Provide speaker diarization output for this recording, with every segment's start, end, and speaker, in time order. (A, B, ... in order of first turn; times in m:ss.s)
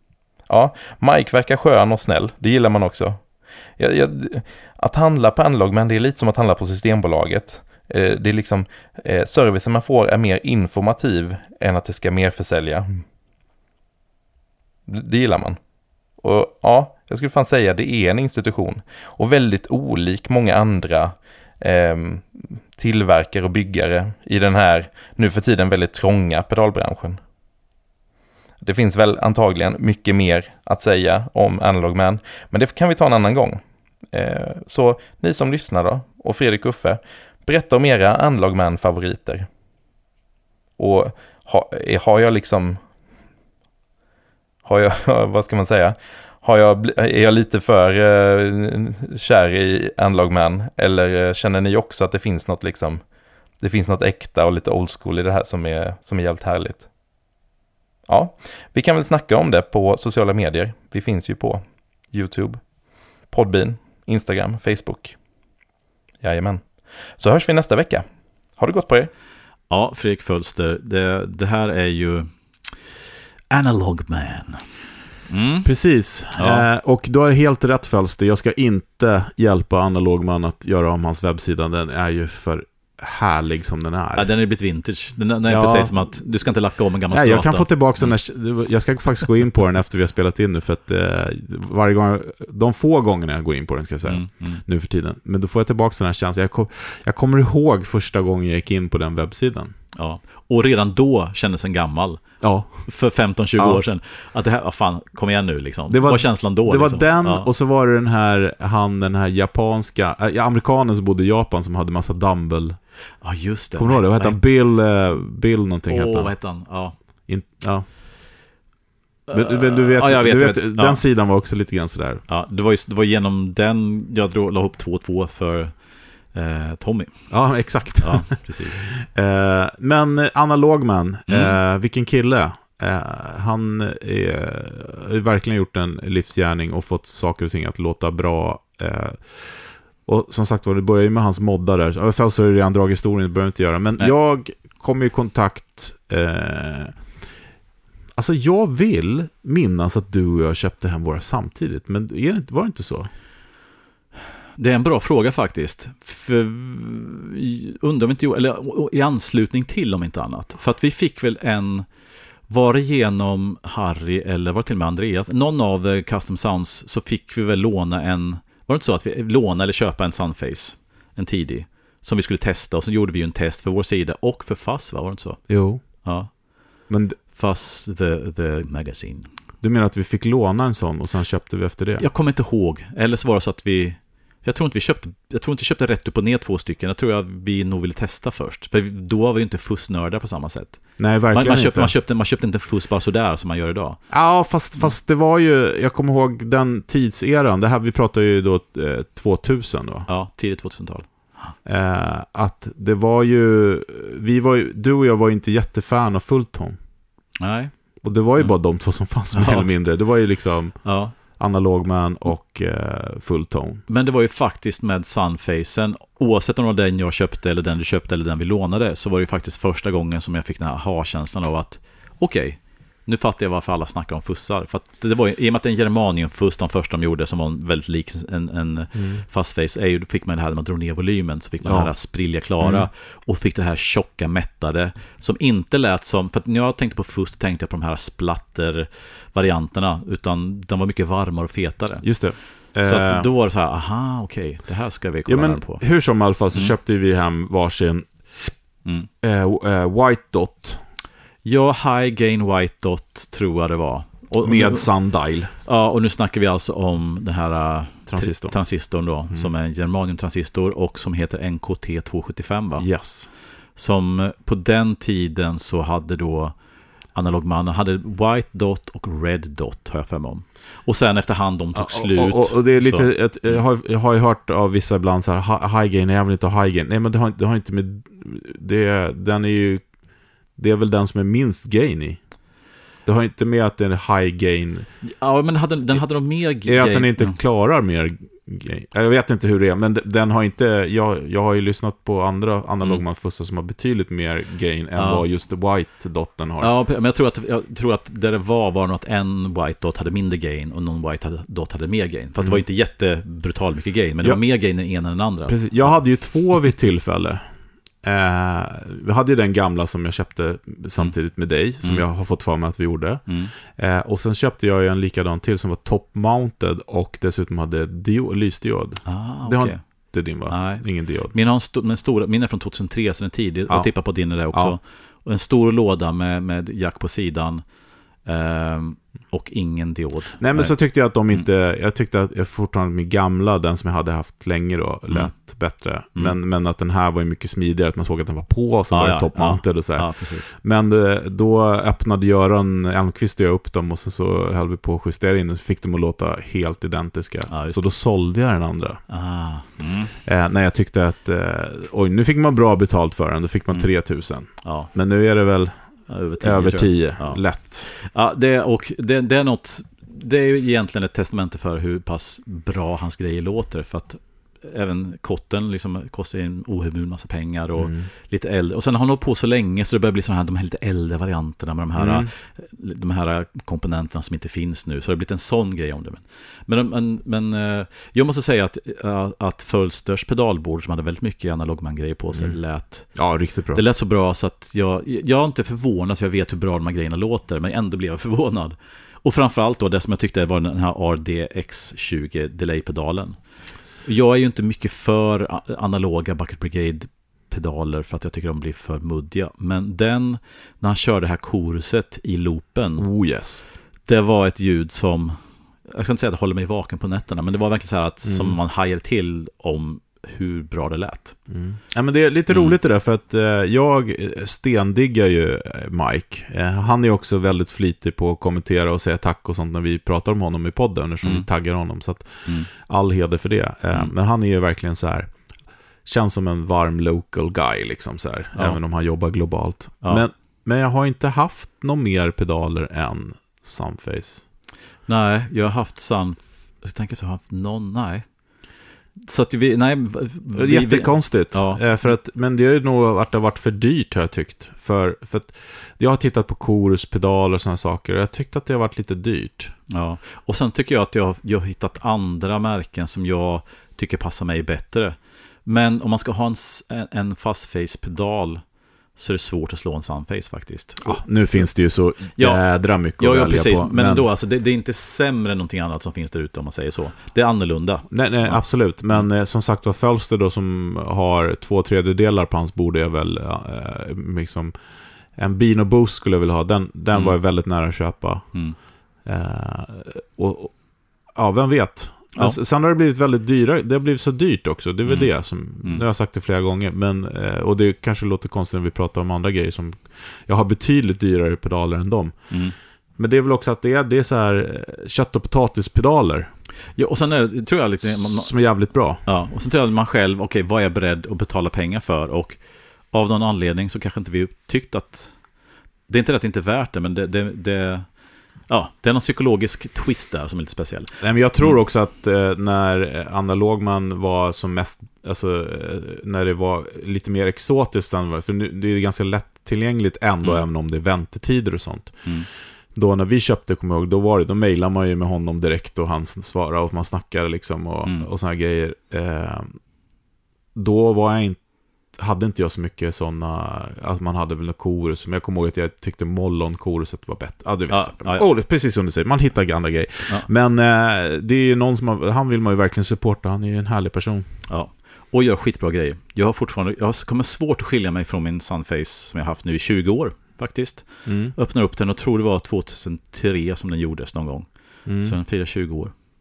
0:00.5-0:03.2 A
0:03.8-0:13.0 A
0:14.9-0:15.6 A
0:16.2-0:27.2 A
0:28.6-0:33.6 A
0:34.1-0:39.5 A
0:40.8-0:42.8 A
0:44.6-0:53.0 A
0:53.6-0:56.8 A
0:58.1-1:02.6 A
1:03.3-1:05.1 A
1:06.2-1:06.6 A
1:07.2-1:08.0 A
1:08.6-1:09.1 A
1:09.7-1:12.7 B
1:13.5-1:14.6 B
1:15.3-1:15.7 B
1:15.6-1:24.3 C
1:16.4-1:16.6 B
1:24.1-1:28.1 B
1:25.5-1:26.2 C
1:27.1-1:39.7 C
1:34.0-1:34.6 B
1:40.0-1:42.2 B
1:42.4-1:42.9 C
1:42.8-1:47.5 B
1:45.9-1:52.8 C
1:53.2-1:54.4 B
1:53.8-1:56.3 C
1:55.9-1:56.9 B
1:57.3-1:57.8 C
1:59.3-2:01.0 B
1:59.3-2:02.2 C
2:02.3-2:05.7 B
2:06.3-2:07.3 B
2:07.3-2:27.0 C
2:08.0-2:08.9 B
2:11.3-2:11.5 B
2:28.2-2:33.1 C
2:34.6-2:41.8 B
2:42.5-2:56.3 B
2:55.5-2:55.8 C
2:56.9-2:57.2 C
2:57.3-2:59.3 B
2:59.6-3:02.0 C
3:02.0-3:14.0 B
3:11.0-3:11.9 C
3:14.1-3:20.1 C
3:20.1-3:21.5 B
3:21.6-3:26.8 C
3:27.4-3:27.7 B
3:28.0-3:33.8 C
3:29.3-3:29.6 B
3:30.8-3:31.1 B
3:33.9-4:02.1 B
3:48.9-3:49.2 C
3:51.6-3:51.9 C
3:52.6-3:52.9 C
4:02.0-4:03.3 C
4:02.8-4:05.8 B
4:05.2-4:08.5 C
4:09.2-4:10.8 C
4:11.4-4:14.9 B
4:14.4-4:15.5 C
4:15.6-4:22.9 B
4:18.1-4:18.5 C
4:22.8-4:23.3 C
4:23.7-4:26.6 B
4:27.1-4:33.6 B
4:31.7-4:39.8 C
4:40.6-4:42.2 C
4:43.0-4:44.9 C
4:45.0-4:47.4 B
4:46.6-4:56.7 C
4:55.0-4:55.2 B
4:56.6-5:05.6 B
5:05.5-5:07.4 C
5:08.0-5:21.3 C
5:19.0-5:19.8 B
5:20.5-5:27.6 B
5:24.5-5:24.8 C
5:28.2-5:30.8 B
5:30.4-5:49.0 C
5:35.1-5:35.4 B
5:38.9-5:40.5 B
5:47.5-5:47.8 B
5:49.1-5:50.1 B
5:50.2-5:57.9 C
5:54.6-5:54.9 B
5:56.1-6:23.2 B
6:07.8-6:08.1 C
6:12.0-6:12.3 C
6:23.1-6:23.8 C
6:23.7-6:33.4 B
6:34.0-6:43.1 B
6:43.0-6:43.6 C
6:44.0-6:51.4 B
6:48.2-6:48.6 C
6:51.5-7:05.3 C
6:52.5-6:52.8 B
7:01.2-7:01.5 B
7:06.0-7:14.4 C
7:15.0-7:18.3 B
7:19.1-7:21.8 B
7:20.5-7:29.7 C
7:29.9-7:38.6 B
7:39.1-7:41.2 B
7:41.0-7:44.2 C
7:42.3-7:42.6 B
7:43.2-7:49.2 B
7:48.1-7:54.7 C
7:55.3-7:58.6 C
7:59.2-8:00.7 C
8:01.3-8:12.6 C
8:05.0-8:06.0 B
8:12.5-8:12.7 B
8:13.2-8:16.5 C
8:17.0-8:18.6 B
8:18.0-8:19.2 C
8:19.2-8:22.6 B
8:23.1-8:25.4 B
8:26.1-8:28.1 B
8:28.7-8:31.8 B
8:31.2-8:42.3 C
8:42.9-8:49.8 C
8:50.7-9:04.5 C
8:57.9-8:58.4 B
9:04.7-9:16.1 B
9:11.2-9:11.5 C
9:15.0-9:15.3 C